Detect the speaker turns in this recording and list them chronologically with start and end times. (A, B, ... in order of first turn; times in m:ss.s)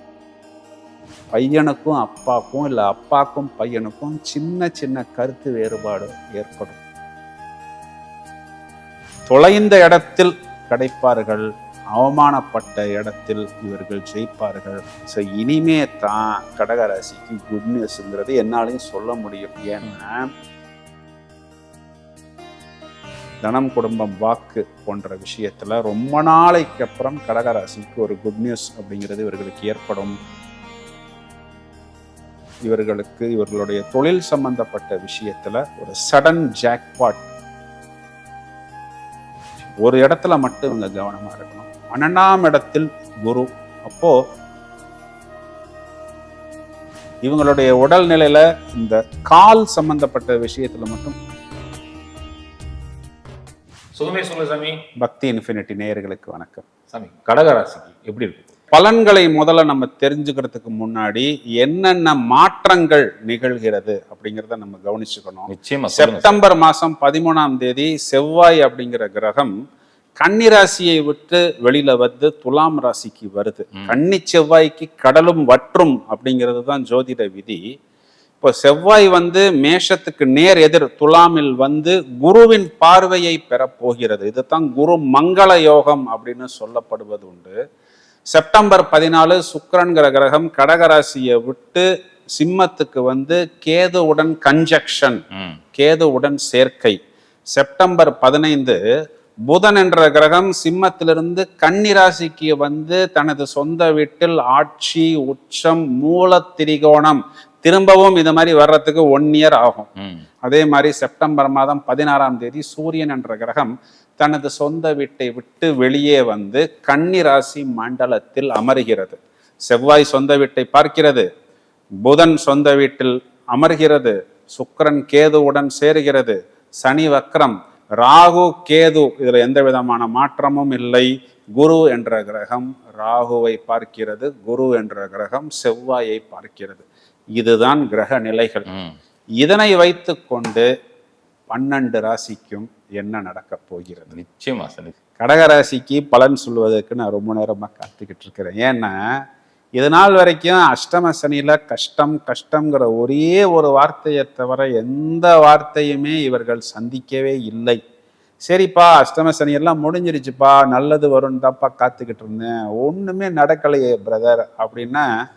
0:01.3-0:06.8 A
0:09.3-0:20.3 A
0:23.4-0:30.1 A
0:32.6-0:37.3 A
0:39.8-0:44.2 A
0:47.2-0:51.2 A
0:54.0-0:54.8 B
0:55.0-0:56.6 A
0:56.9-0:58.5 B
0:58.7-1:09.5 A
1:05.5-1:06.4 B
1:10.2-1:17.6 A
1:18.4-1:27.6 A
1:28.3-1:31.8 A
1:32.4-1:35.2 A
1:35.8-1:37.0 A
1:37.5-1:38.8 A
1:39.5-1:49.9 A
1:50.4-2:01.2 A
2:02.0-2:18.7 A
2:18.7-2:19.0 B
2:19.4-2:20.7 A
2:21.5-2:24.2 A
2:24.1-2:24.9 B
2:25.2-2:28.9 A
2:29.8-2:37.8 A
2:38.4-2:45.1 A